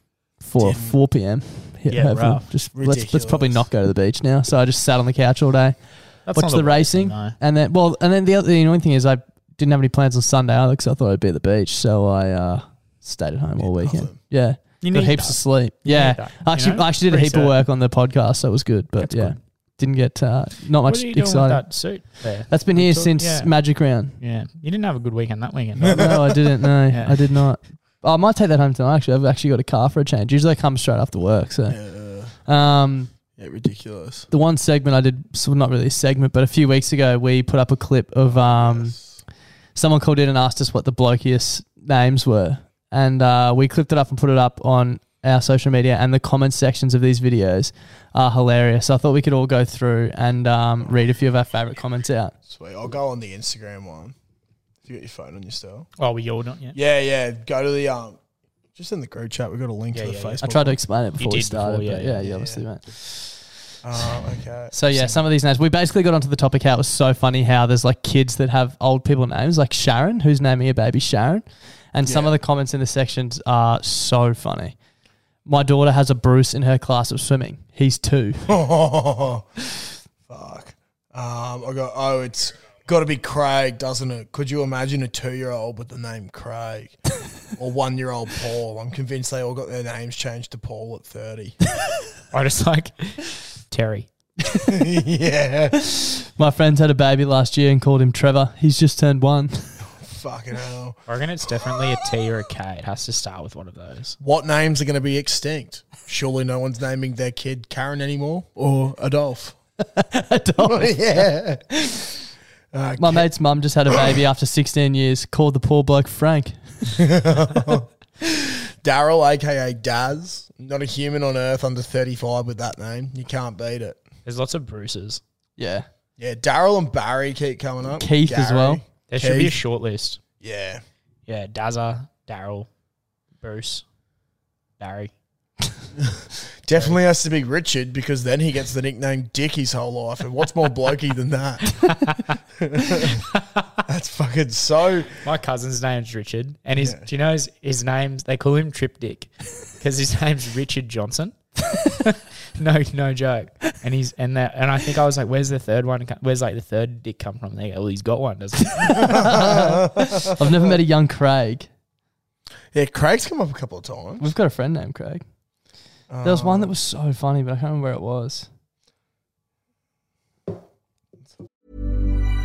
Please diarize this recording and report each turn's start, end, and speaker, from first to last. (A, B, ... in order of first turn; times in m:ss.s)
0:00.4-0:24.1 A
0:00.6-0:00.9 B
0:01.9-0:02.4 C
0:02.7-0:03.7 B
0:06.3-0:07.4 C
0:13.6-0:14.2 B
0:14.8-0:17.6 C
0:19.0-0:19.4 C
0:20.8-0:26.2 C
0:25.9-0:31.8 A
0:26.9-0:27.3 C
0:31.7-0:32.5 B
0:32.4-0:33.1 A
0:33.3-0:34.3 B
0:34.3-0:39.0 A
0:38.2-0:39.2 B
0:39.7-0:52.3 A
0:52.4-0:54.1 B
0:54.8-0:55.9 B
0:56.0-0:56.8 C
0:56.7-0:58.2 B
0:58.7-1:00.8 B
0:59.9-1:00.4 C
1:00.4-1:02.8 A
1:01.2-1:02.2 C
1:02.2-1:02.6 B
1:03.8-1:05.1 B
1:04.7-1:14.8 A
1:12.0-1:12.3 B
1:15.4-1:18.5 A
1:18.5-1:19.5 B
1:20.3-1:27.0 B
1:27.5-1:31.5 B
1:32.3-1:34.1 C
1:34.7-1:35.8 B
1:35.9-1:39.9 A
1:40.0-1:41.0 B
1:41.1-1:44.2 C
1:44.2-1:49.6 B
1:49.9-1:51.0 A
1:50.6-1:51.6 B
1:52.7-1:53.3 B
1:53.0-1:57.0 A
1:57.0-1:57.8 B
1:58.8-2:04.0 B
2:04.2-2:05.2 C
2:05.6-2:05.8 A
2:06.2-2:09.6 B
2:08.0-2:08.8 A
2:09.1-2:10.2 C
2:10.4-2:10.8 B
2:11.3-2:12.7 C
2:13.4-2:13.8 C
2:14.8-2:15.1 C
2:16.6-2:21.8 B
2:16.7-2:17.0 C
2:22.6-2:23.2 B
2:23.9-2:25.2 B
2:25.2-2:39.3 C
2:26.8-2:27.0 B
2:38.9-2:41.7 A
2:39.1-2:40.7 B
2:42.7-2:44.3 B
2:44.2-2:45.2 A
2:46.1-2:46.7 B
2:46.2-2:48.5 A